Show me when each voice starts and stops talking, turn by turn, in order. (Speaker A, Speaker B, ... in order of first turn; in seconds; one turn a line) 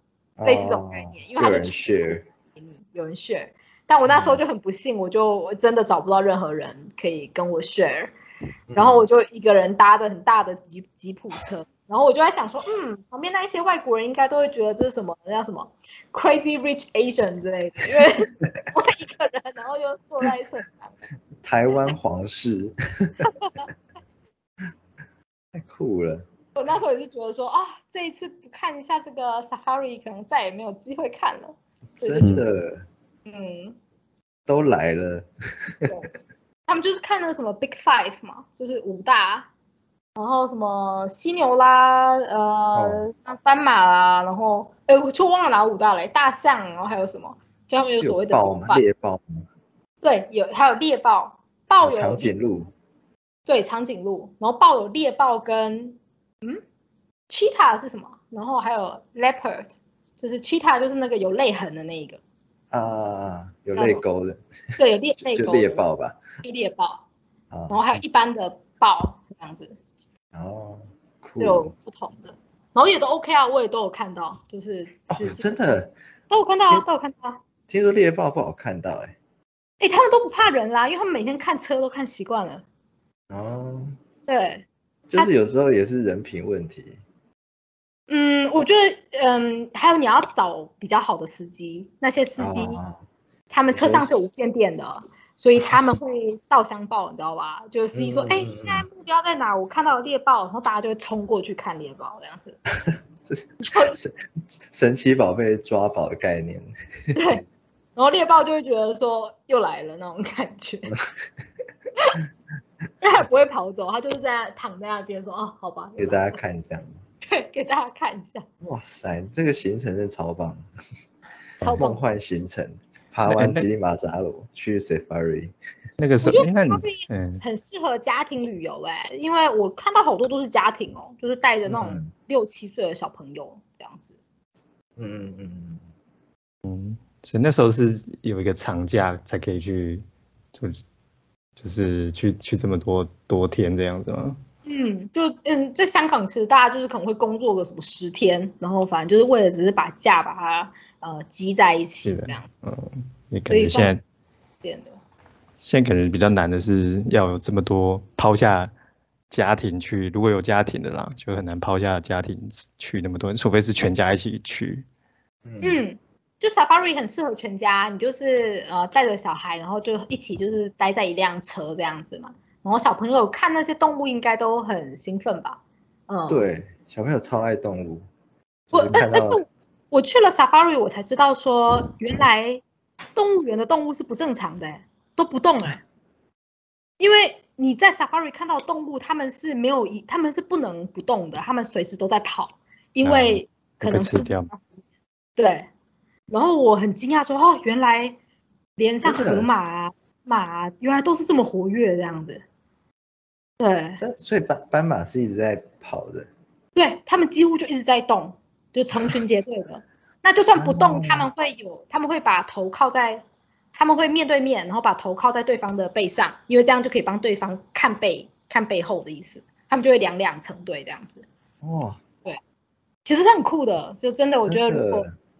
Speaker A: 0.4-2.2
Speaker B: 0.5-8.1
Speaker A: 4.0-4.4
Speaker A: 8.7-9.1
Speaker B: 8.8-21.0
Speaker A: 21.4-23.3
Speaker B: 23.2-23.7
Speaker A: 25.5-26.3
Speaker B: 26.6-32.3
Speaker A: 32.0-32.9
Speaker B: 33.3-33.8
Speaker A: 34.5-36.0
Speaker B: 36.7-39.5
Speaker B: 40.2-48.8
Speaker A: 42.7-43.1
Speaker A: 48.0-49.5
Speaker B: 50.0-52.3
Speaker A: 51.8-52.7
Speaker B: 53.5-56.6
Speaker B: 57.3-62.2
Speaker A: 62.7-64.4
Speaker B: 63.8-64.0
Speaker B: 64.8-65.8
Speaker A: 65.2-66.2
Speaker B: 66.4-67.0
Speaker A: 67.5-68.0
Speaker B: 67.7-69.8
Speaker A: 70.3-71.7
Speaker B: 71.4-75.6
Speaker A: 75.1-75.9
Speaker B: 76.3-77.4
Speaker A: 77.7-79.2
Speaker B: 79.8-82.6
Speaker A: 83.3-84.0
Speaker B: 84.3-85.3
Speaker A: 85.1-87.0
Speaker B: 88.1-92.8
Speaker A: 92.4-93.0
Speaker B: 93.5-102.6
Speaker A: 93.7-94.2
Speaker A: 97.9-98.9
Speaker A: 102.9-104.2
Speaker B: 103.6-104.0
Speaker A: 104.7-107.2
Speaker B: 107.1-107.5
Speaker B: 108.0-111.0
Speaker B: 113.0-116.4
Speaker A: 116.0-116.9
Speaker B: 117.2-118.5
Speaker A: 118.6-120.7
Speaker B: 121.6-122.0
Speaker A: 121.7-125.5
Speaker C: 123.3-123.7
Speaker C: 126.0-127.4
Speaker B: 126.2-134.2
Speaker A: 131.7-132.1
Speaker A: 135.0-135.8
Speaker C: 136.7-140.8
Speaker C: 141.6-144.4
Speaker B: 144.7-152.5
Speaker C: 152.0-154.0
Speaker B: 153.5-154.0
Speaker B: 154.6-155.0
Speaker C: 155.6-158.7
Speaker C: 159.3-164.8
Speaker A: 165.5-165.8
Speaker B: 165.6-176.5
Speaker A: 176.3-178.1
Speaker A: 178.7-179.4
Speaker B: 178.7-182.6
Speaker B: 183.2-185.8
Speaker B: 187.0-194.6
Speaker C: 193.0-194.5
Speaker B: 195.4-195.7
Speaker B: 196.3-198.2
Speaker B: 198.8-202.4
Speaker A: 199.0-199.5
Speaker B: 203.6-204.0
Speaker A: 204.0-206.3
Speaker B: 206.8-221.3
Speaker A: 210.6-211.3
Speaker A: 221.6-222.0
Speaker B: 223.1-225.1
Speaker A: 224.4-225.1